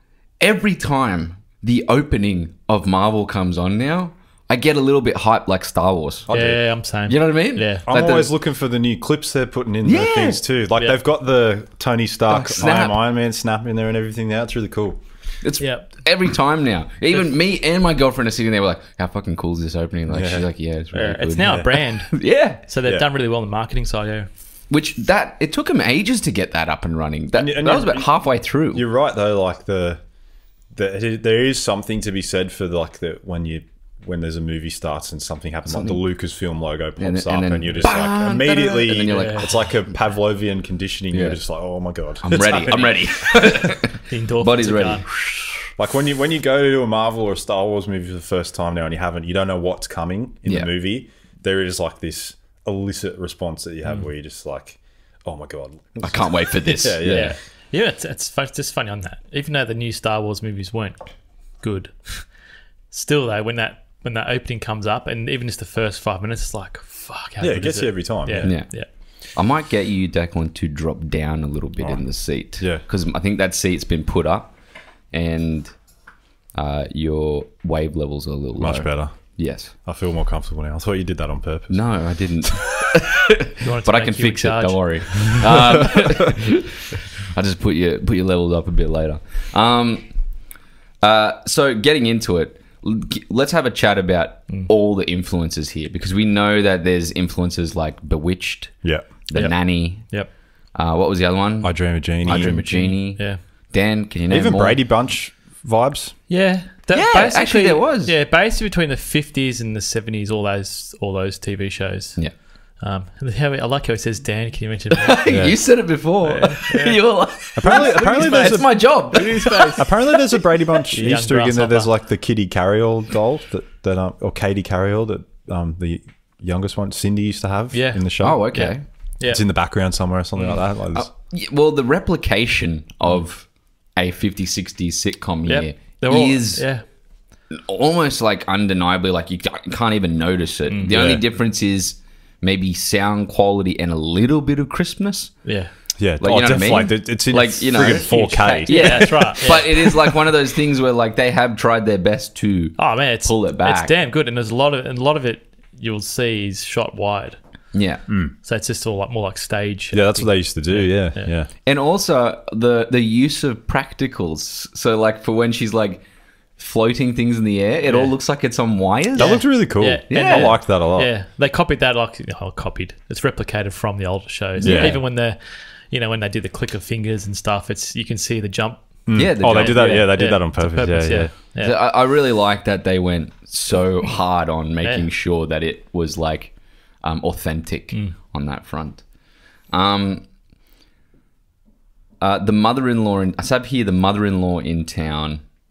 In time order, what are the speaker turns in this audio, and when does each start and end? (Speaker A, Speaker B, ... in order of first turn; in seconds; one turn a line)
Speaker A: 0.4-8.3
Speaker B: 6.3-6.6
Speaker C: 6.3-7.9
Speaker B: 7.9-15.0
Speaker A: 9.8-10.4
Speaker A: 12.3-13.0
Speaker A: 15.4-22.6
Speaker C: 15.6-15.9
Speaker B: 20.1-20.5
Speaker C: 20.9-24.3
Speaker B: 21.4-21.7
Speaker A: 24.7-28.8
Speaker B: 27.4-28.1
Speaker B: 28.7-30.0
Speaker B: 30.7-43.4
Speaker A: 35.7-36.0
Speaker A: 37.0-39.6
Speaker C: 39.1-39.6
Speaker A: 41.1-41.4
Speaker A: 42.2-45.7
Speaker C: 44.0-45.0
Speaker B: 45.8-57.4
Speaker A: 56.0-57.3
Speaker C: 57.0-62.3
Speaker C: 62.9-68.9
Speaker B: 67.4-68.6
Speaker A: 68.4-74.6
Speaker B: 71.8-72.8
Speaker A: 75.1-75.8
Speaker A: 76.5-79.7
Speaker B: 78.6-82.6
Speaker A: 81.7-90.1
Speaker C: 83.6-85.6
Speaker A: 91.0-104.8
Speaker B: 98.8-99.1
Speaker C: 99.3-100.3
Speaker B: 101.6-102.7
Speaker C: 102.4-103.4
Speaker B: 104.3-106.2
Speaker C: 106.3-115.6
Speaker A: 106.9-108.1
Speaker A: 115.0-120.0
Speaker B: 115.3-115.6
Speaker C: 116.2-121.9
Speaker B: 117.6-128.6
Speaker C: 127.7-129.4
Speaker A: 128.2-128.8
Speaker B: 129.2-131.1
Speaker A: 130.9-136.7
Speaker C: 135.5-136.8
Speaker A: 137.5-145.4
Speaker B: 140.9-141.2
Speaker C: 145.4-145.7
Speaker B: 146.0-149.6
Speaker A: 146.2-153.9
Speaker C: 148.7-150.0
Speaker C: 152.8-157.4
Speaker A: 157.7-158.0
Speaker B: 158.1-158.3
Speaker C: 158.4-161.3
Speaker B: 159.9-161.5
Speaker A: 161.6-166.0
Speaker A: 166.6-170.6
Speaker C: 167.9-168.1
Speaker B: 169.2-171.1
Speaker C: 169.2-181.8
Speaker A: 174.6-175.0
Speaker B: 174.6-175.0
Speaker B: 179.1-181.3
Speaker A: 179.1-180.2
Speaker A: 181.6-189.1
Speaker A: 189.7-190.3
Speaker A: 192.2-195.4